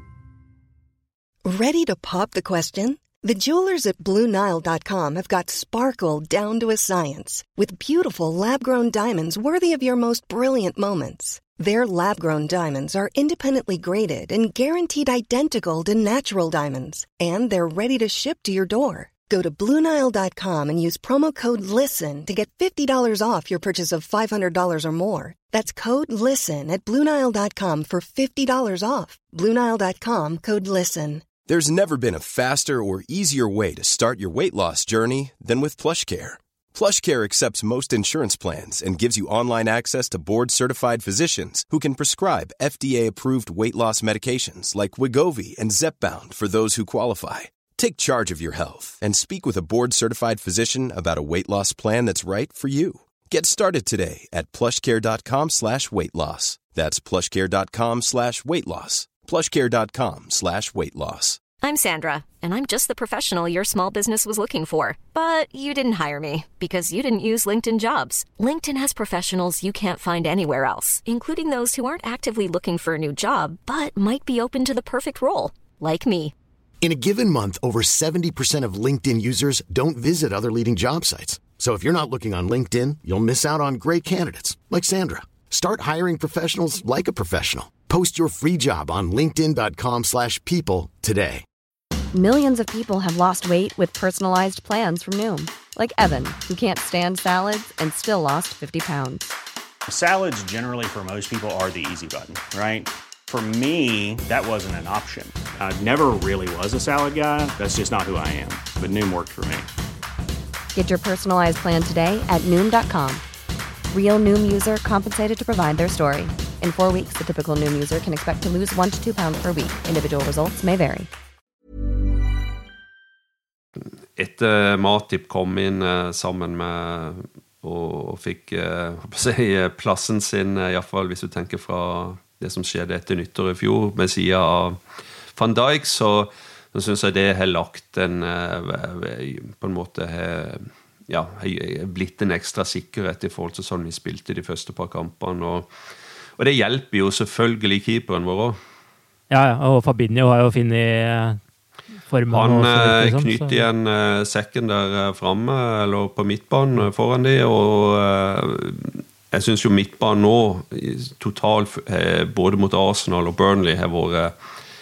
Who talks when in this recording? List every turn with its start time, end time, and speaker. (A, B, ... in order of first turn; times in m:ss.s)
0:01.4-0:31.2 A
0:31.5-1:01.4 B
1:01.6-1:16.3 C
1:16.8-1:31.4 D
1:32.1-1:39.3 E
1:39.9-1:49.7 F
1:50.7-1:53.2 E
1:53.9-2:01.1 E
2:04.2-2:14.8 G
2:15.4-2:25.7 G
2:26.4-2:28.6 G
2:29.3-2:31.4 H
2:32.1-2:33.6 H
2:32.3-2:44.3 G